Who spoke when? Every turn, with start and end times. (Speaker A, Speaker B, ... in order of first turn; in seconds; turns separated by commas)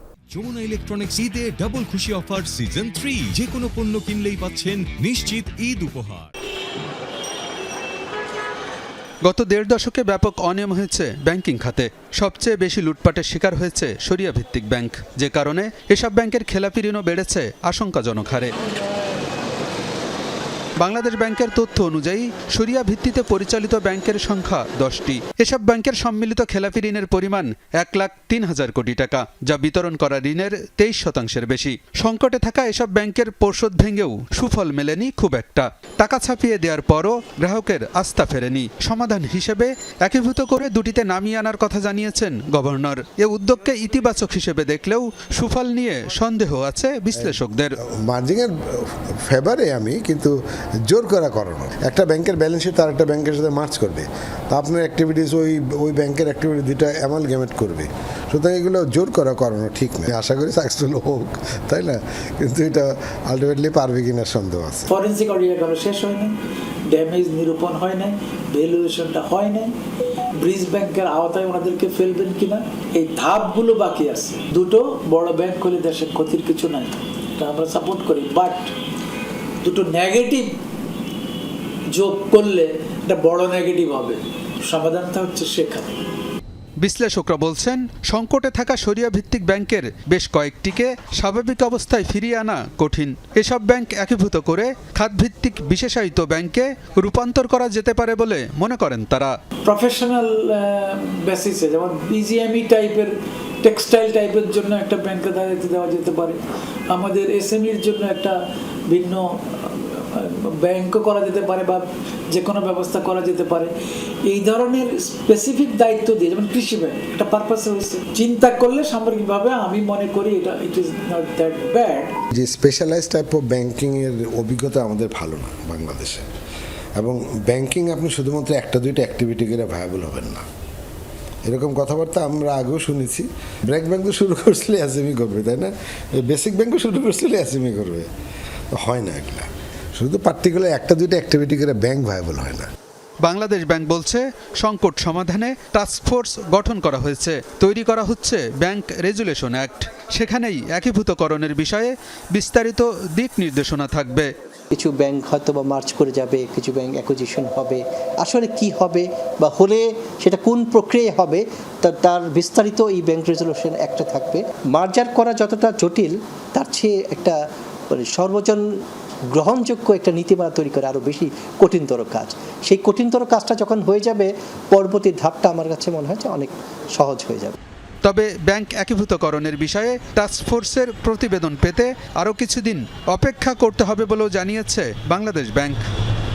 Speaker A: 0.3-6.3, Speaker B: 9.2-18.5, Speaker B: 20.8-47.8, Speaker C: 48.0-50.4, Speaker C: 50.9-64.9, Speaker D: 64.9-69.7, Speaker D: 70.4-78.7, Speaker D: 79.6-80.5, Speaker D: 81.9-86.0, Speaker B: 86.8-99.3, Speaker D: 99.6-103.1, Speaker D: 103.6-106.4, Speaker D: 106.9-108.3, Speaker D: 108.9-113.7, Speaker D: 114.2-122.2, Speaker C: 122.4-126.2, Speaker C: 127.0-130.4, Speaker C: 131.4-138.1, Speaker C: 138.8-142.7, Speaker B: 143.2-154.3, Speaker E: 154.7-177.5, Speaker B: 178.0-185.8